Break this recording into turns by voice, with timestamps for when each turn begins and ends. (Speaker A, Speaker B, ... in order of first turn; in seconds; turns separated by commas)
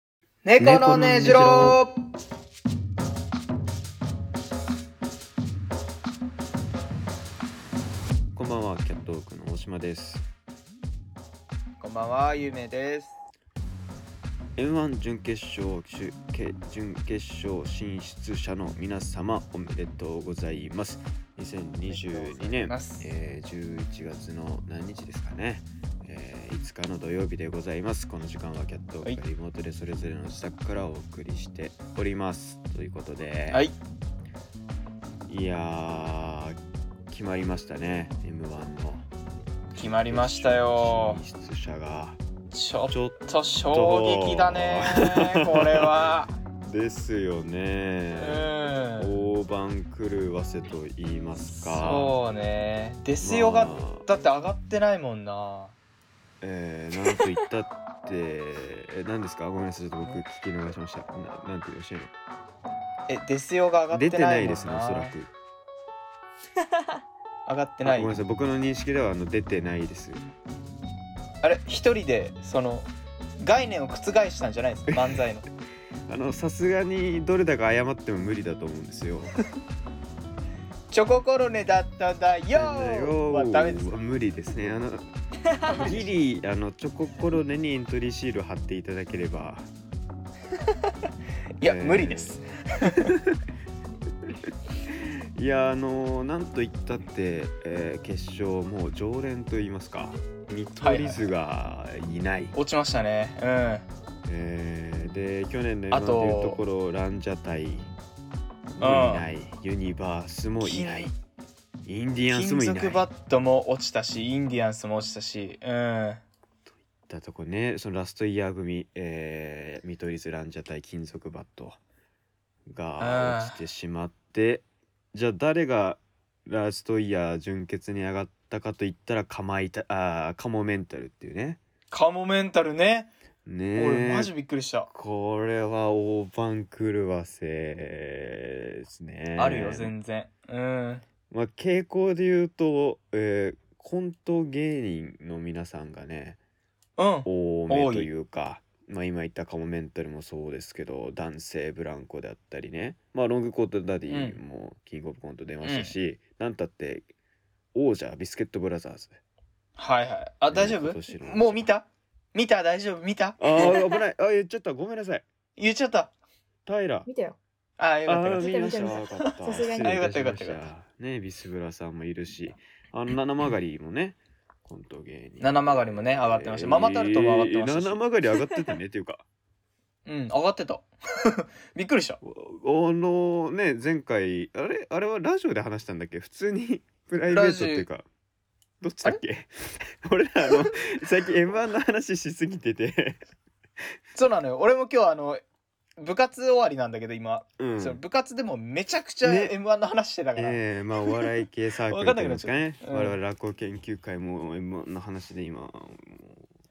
Speaker A: 0.4-1.9, Speaker B: 0.6-1.8, Speaker B: 8.3-10.2, Speaker A: 11.8-13.2, Speaker B: 14.6-33.7, Speaker A: 21.9-23.1, Speaker B: 35.2-36.6, Speaker B: 37.1-39.1, Speaker A: 39.7-41.2, Speaker B: 39.7-42.2, Speaker A: 42.5-46.4, Speaker B: 42.9-43.2, Speaker B: 43.7-45.9, Speaker B: 46.6-52.1, Speaker A: 48.2-49.2, Speaker A: 51.5-55.7, Speaker B: 53.2-54.0, Speaker B: 56.4-62.1, Speaker A: 63.1-65.2, Speaker B: 63.9-65.3, Speaker A: 67.5-68.2, Speaker B: 67.8-70.2, Speaker A: 71.4-75.5, Speaker B: 74.9-75.2, Speaker B: 76.1-79.3, Speaker A: 80.9-84.0, Speaker B: 82.5-85.1, Speaker B: 85.7-89.7, Speaker A: 85.7-86.1, Speaker A: 91.6-93.1, Speaker B: 91.6-92.4, Speaker B: 94.9-102.5, Speaker A: 100.8-101.2, Speaker A: 102.5-103.8, Speaker B: 104.2-107.9, Speaker A: 105.9-106.6, Speaker B: 108.8-111.1, Speaker A: 108.8-109.2, Speaker A: 110.6-111.1, Speaker B: 111.8-113.0, Speaker A: 112.3-116.2, Speaker B: 117.0-121.8, Speaker B: 122.7-131.6, Speaker A: 123.0-123.6, Speaker A: 131.9-133.1, Speaker B: 133.4-134.3, Speaker A: 133.7-134.9, Speaker B: 134.9-139.9, Speaker A: 139.3-141.0, Speaker B: 141.3-146.4, Speaker A: 147.0-148.1, Speaker B: 147.2-157.1, Speaker A: 154.1-154.4, Speaker A: 155.6-155.9, Speaker B: 157.7-159.2, Speaker A: 159.8-163.8, Speaker B: 160.5-161.6, Speaker B: 163.4-165.2, Speaker A: 165.6-166.1, Speaker B: 166.7-167.1, Speaker C: 167.1-167.4, Speaker A: 167.8-170.7, Speaker B: 168.1-179.2, Speaker C: 168.3-170.0, Speaker A: 175.4-178.0, Speaker A: 180.1-182.2, Speaker B: 182.2-188.0, Speaker A: 187.3-187.9, Speaker B: 188.8-193.2, Speaker A: 194.1-195.4, Speaker A: 196.0-200.6, Speaker B: 197.6-198.0, Speaker B: 199.2-199.6, Speaker B: 200.3-206.5, Speaker A: 201.9-203.2